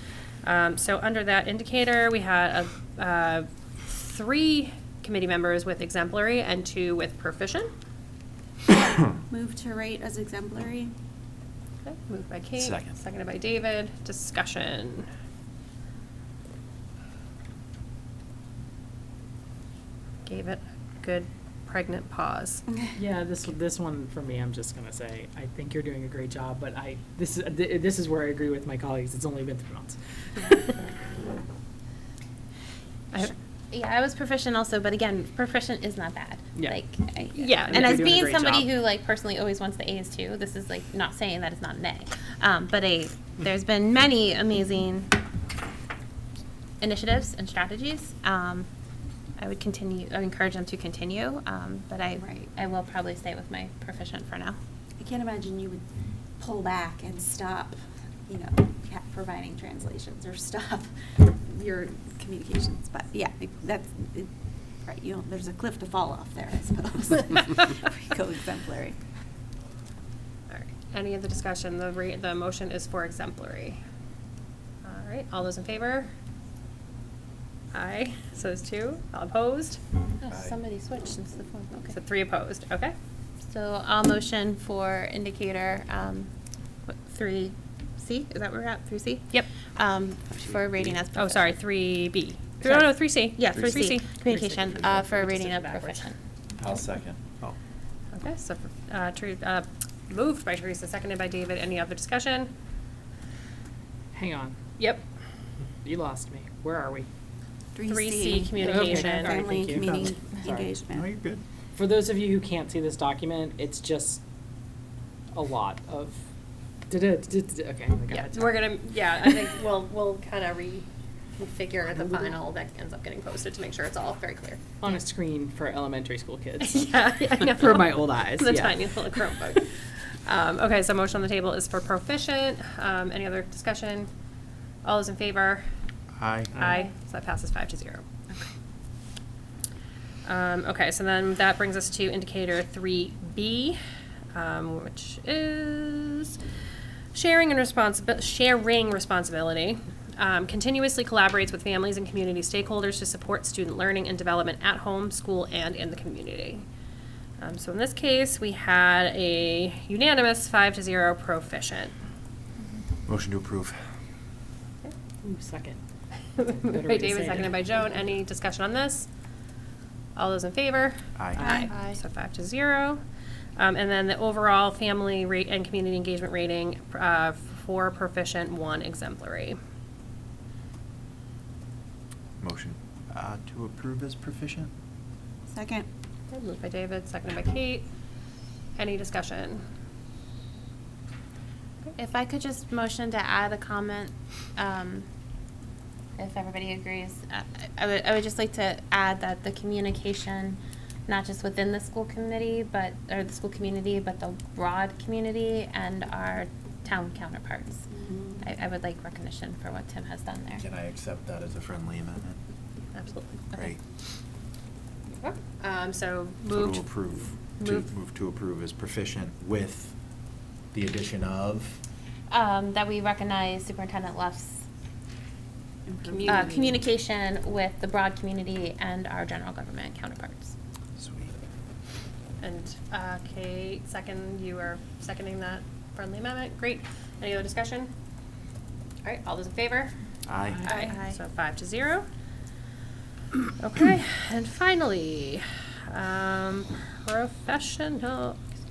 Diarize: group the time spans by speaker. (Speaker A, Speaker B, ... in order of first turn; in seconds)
Speaker A: 0.4-7.7, 11.8-15.1, 20.2-22.6, 37.3-38.2, 70.5-73.8, 74.8-76.1, 77.7-79.8, 81.9-82.9, 91.1-94.5, 95.3-96.0, 98.1-102.5, 107.8-109.4, 118.1-124.8, 126.6-134.1, 134.8-135.7, 136.5-138.0, 140.2-143.8, 144.3-146.4, 147.1-156.7, 157.4-161.9, 166.7-169.1, 170.1-173.0, 173.6-179.6, 186.3-187.9, 188.8-189.6, 212.9-213.7, 215.2-217.9, 226.1-226.7, 232.4-237.9, 239.0-239.9, 240.6-242.1, 243.6-248.4
Speaker B: 8.7-10.9, 52.2-52.5, 55.0-55.8, 56.4-64.3, 64.8-69.0, 107.7-111.1, 171.4-171.7, 185.5-185.9, 207.9-208.4, 225.9-226.8
Speaker C: 12.6-13.0, 80.3-80.5, 96.6-97.5, 110.9-111.4, 136.2-136.5, 163.1-163.8, 171.2-171.5, 182.4-184.7, 210.6-212.4, 213.5-213.8, 216.5-219.9, 220.7-221.8, 231.0-231.3, 240.3-240.6
Speaker D: 22.9-30.5, 37.7-38.7, 94.3-95.2, 104.1-104.6, 105.8-107.1, 108.6-110.7, 111.7-114.2, 115.3-116.2, 116.9-118.6, 124.8-129.2, 136.5-136.8, 165.2-165.8, 166.4-167.7, 240.4-240.9
Speaker E: 33.2-45.2, 46.8-48.7, 49.4-54.6, 80.2-81.9, 83.4-86.3, 86.9-91.5, 92.6-96.2, 171.5-172.0, 191.9-195.1, 196.2-207.9, 208.4-210.6, 222.3-224.6, 226.2-230.5, 240.7-241.2